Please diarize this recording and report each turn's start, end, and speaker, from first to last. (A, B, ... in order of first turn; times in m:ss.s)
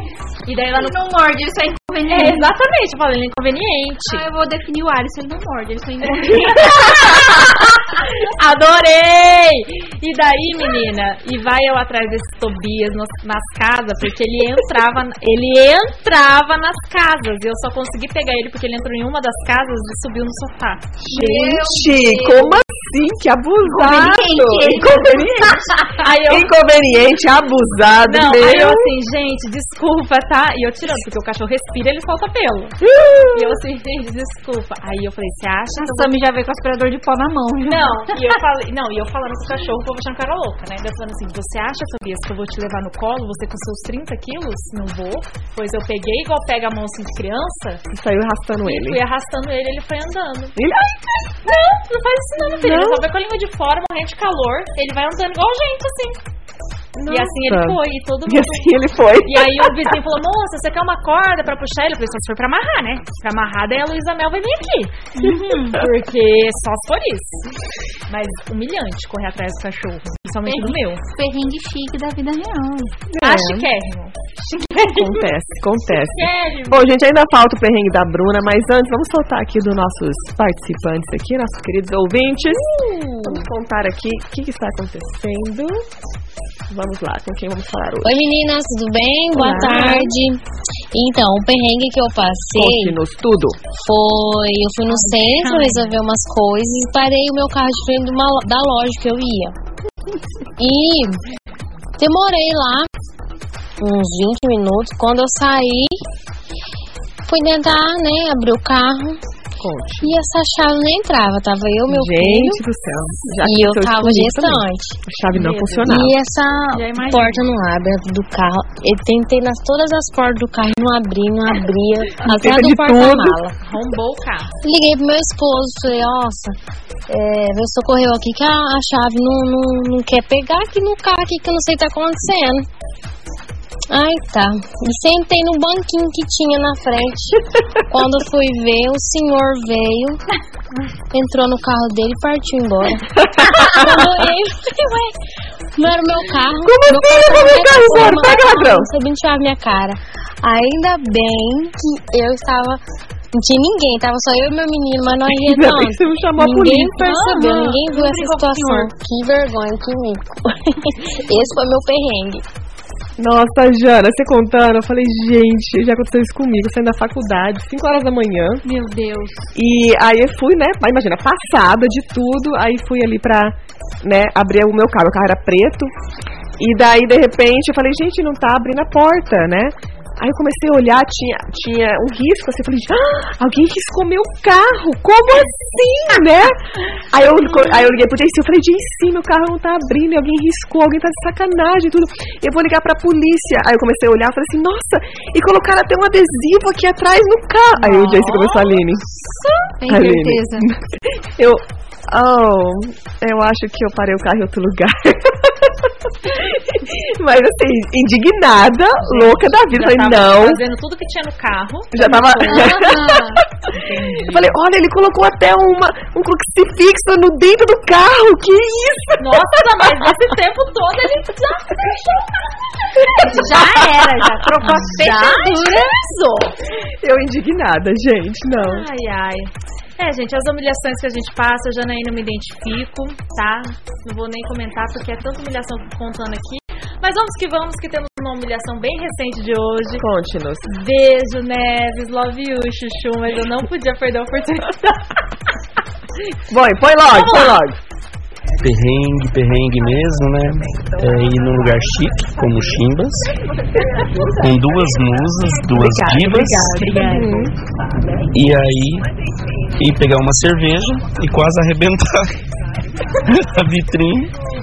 0:00.5-0:01.0 A
0:00.7-0:02.5 B
0:02.1-0:04.2 A
0:04.1-0:07.6 B
0:06.3-0:21.0 A
0:21.0-0:28.9 C
0:21.1-0:22.6 B
0:23.6-0:25.9 B
0:26.0-0:26.5 A
0:28.1-0:32.8 A
0:32.8-0:33.6 C
0:33.3-0:36.1 A
0:35.8-0:38.2 B
0:37.6-0:47.8 A
0:47.9-0:49.0 C
0:48.6-0:50.6 A
0:50.6-0:50.9 C
0:51.4-0:56.2 A
0:52.4-0:53.0 C
0:57.0-1:00.0 C
0:57.1-0:58.7 A
0:59.2-1:05.1 A
1:05.2-1:05.8 B
1:05.7-1:07.4 A
1:08.1-1:11.0 A
1:10.5-1:13.0 B
1:13.1-1:13.7 C
1:13.2-1:15.2 A
1:14.9-1:25.8 C
1:15.9-1:16.9 A
1:22.8-1:23.3 A
1:26.7-1:28.2 C
1:28.0-1:30.4 D
1:29.3-1:30.1 C
1:29.6-1:30.0 A
1:30.9-1:33.0 D
1:32.5-1:33.6 C
1:33.7-1:39.6 D
1:40.6-1:41.2 D
1:42.0-1:42.9 D
1:43.8-1:46.0 D
1:47.3-1:49.2 D
1:49.6-1:50.2 C
1:50.0-1:52.6 D
1:51.9-1:56.2 C
1:53.4-1:55.0 D
1:55.3-1:55.9 A
1:55.8-2:03.6 D
1:56.8-1:57.4 A
2:02.2-2:03.4 C
2:03.6-2:04.5 A
2:04.6-2:06.6 D
2:07.1-2:12.7 D
2:13.9-2:20.2 D
2:21.1-2:23.1 D
2:23.2-2:24.1 C
2:23.6-2:25.1 D
2:25.8-2:32.8 D
2:26.6-2:28.9 C
2:33.3-2:42.4 D
2:35.3-2:37.6 C
2:38.1-2:38.7 A
2:43.2-2:48.6 C
2:48.6-2:49.5 B
2:49.6-2:55.9 C
2:56.6-3:19.0 C
3:17.8-3:18.8 A
3:19.8-3:20.7 B
3:19.9-3:30.6 C
3:29.0-3:32.8 A
3:31.9-3:33.4 C
3:32.4-3:33.4 B
3:33.7-3:34.6 A
3:34.2-3:40.1 C
3:39.2-3:42.3 A
3:43.0-3:43.6 A
3:43.2-3:46.0 B
3:43.2-3:44.1 C
3:44.6-3:46.6 A
3:47.0-3:48.9 C
3:48.6-4:00.0 A
4:00.0-4:00.6 C
4:00.6-4:05.1 A
4:06.5-4:07.8 C
4:07.1-4:07.6 A
4:08.6-4:13.3 E
4:14.0-4:14.2 C
4:14.4-4:16.9 E
4:15.8-4:17.5 C
4:16.0-4:17.5 A
4:18.3-4:19.1 E
4:19.8-4:22.4 E
4:23.2-4:24.3 E